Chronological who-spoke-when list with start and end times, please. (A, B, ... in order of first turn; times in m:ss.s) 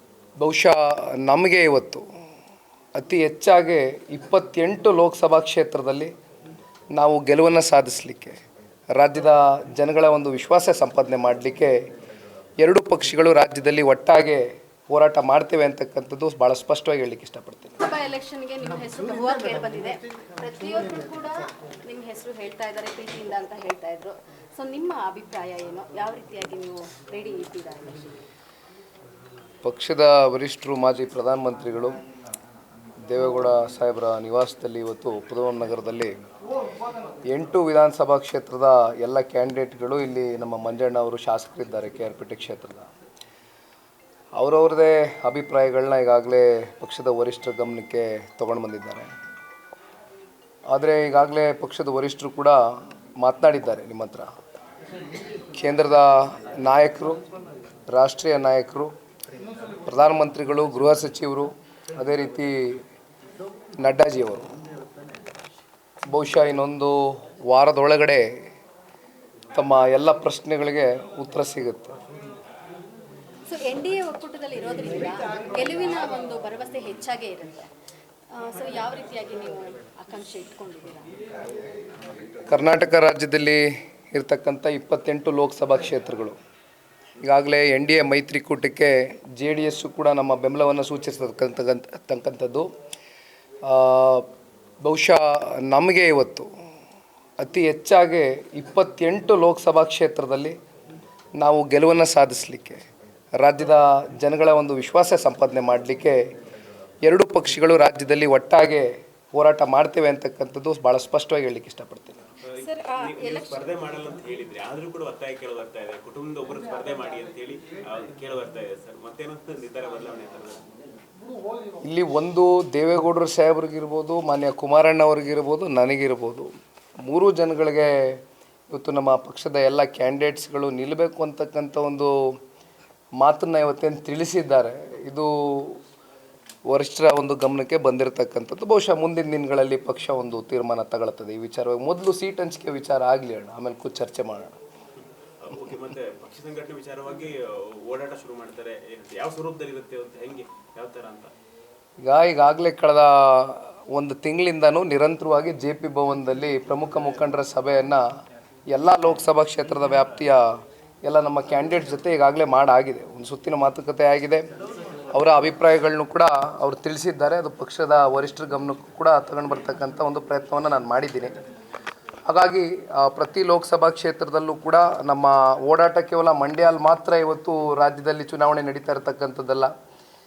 0:00.4-0:02.0 A
0:02.9-0:06.1 A
0:06.9-0:08.4 A
0:09.0-0:11.9 A
0:12.6-0:17.8 A
0:17.8-0:28.2 B
0:29.6-0:32.0 A
0:33.1-0:36.2 A
0:37.3-0:42.9 A
0:44.4-0:49.1 A
0:50.7-0:54.3 A
0:55.5-0:57.2 A
0:57.9-0:58.9 A
0:59.8-1:02.8 A
1:03.8-1:04.5 A
1:06.1-1:08.3 A
1:09.5-1:12.0 A
1:13.5-1:17.7 B
1:18.3-1:21.1 B
1:22.5-1:26.4 A
1:27.2-1:32.7 A
1:33.6-1:34.3 A
1:34.8-1:36.5 A
1:37.4-1:40.6 A
1:41.4-1:42.8 A
1:43.4-1:46.3 A
1:47.0-1:52.2 A
1:52.5-2:00.6 C
1:52.6-1:53.7 B
2:01.8-2:12.4 A
2:13.2-2:15.8 A
2:16.7-2:24.6 A
2:25.4-2:31.3 C
2:32.0-2:38.0 A
2:38.7-2:44.5 A
2:45.1-2:51.4 A
2:52.3-2:59.7 A